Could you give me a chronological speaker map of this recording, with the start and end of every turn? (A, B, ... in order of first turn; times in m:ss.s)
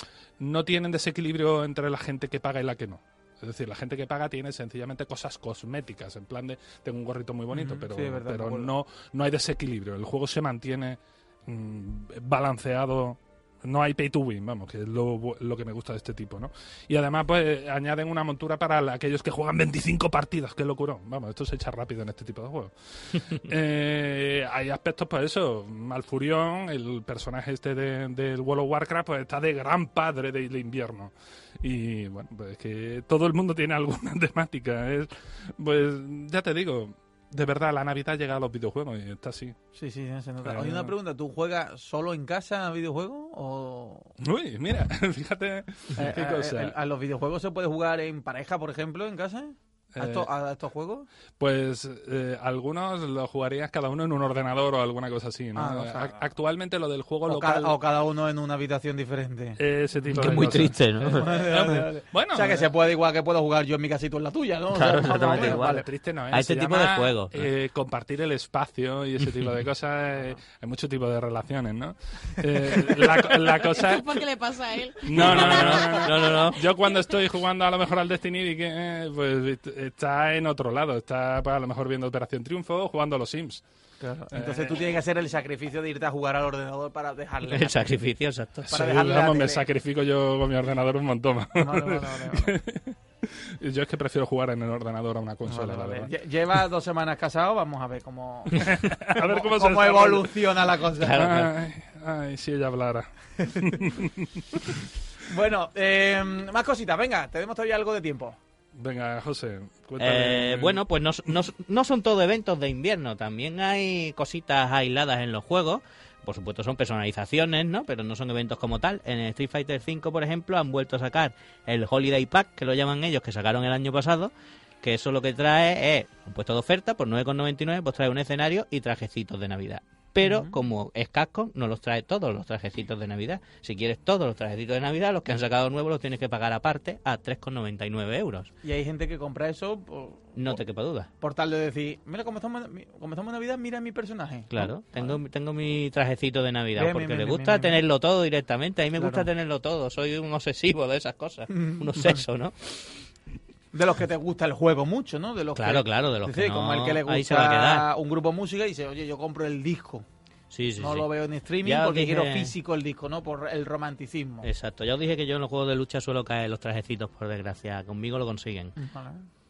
0:00.4-0:39.6 A
0:07.5-0:08.7 B
0:39.8-0:44.1 B
0:40.4-0:41.0 A
0:44.2-0:46.7 A
0:45.9-0:51.1 B
0:49.9-0:50.3 A
0:51.4-0:57.8 A
0:55.6-0:56.2 B
0:57.3-0:59.6 B
0:59.6-1:02.7 A
1:00.1-1:01.3 C
1:01.2-1:05.8 B
1:04.7-1:07.4 C
1:05.2-1:14.2 A
1:13.3-1:16.1 D
1:15.0-1:23.6 A
1:15.1-1:16.6 C
1:24.0-1:27.9 B
1:24.3-1:25.0 A
1:27.4-1:28.7 C
1:28.7-1:36.1 A
1:28.7-1:29.6 B
1:31.6-1:32.6 B
1:35.5-1:41.3 B
1:38.6-1:40.4 A
1:41.0-1:41.5 C
1:41.0-1:44.7 A
1:45.2-1:48.4 B
1:48.8-1:50.8 A
1:50.0-2:18.5 C
2:10.2-2:10.5 B
2:18.6-2:20.6 B
2:20.4-2:21.1 C
2:21.2-2:25.2 B
2:24.5-2:32.9 C
2:26.8-2:27.8 B
2:29.0-2:29.3 B
2:31.6-2:32.2 B
2:33.7-2:40.0 B
2:35.6-2:37.9 C
2:40.5-2:41.1 C
2:40.8-2:44.5 B
2:41.6-2:42.5 C
2:44.4-2:48.7 C
2:48.8-2:49.3 B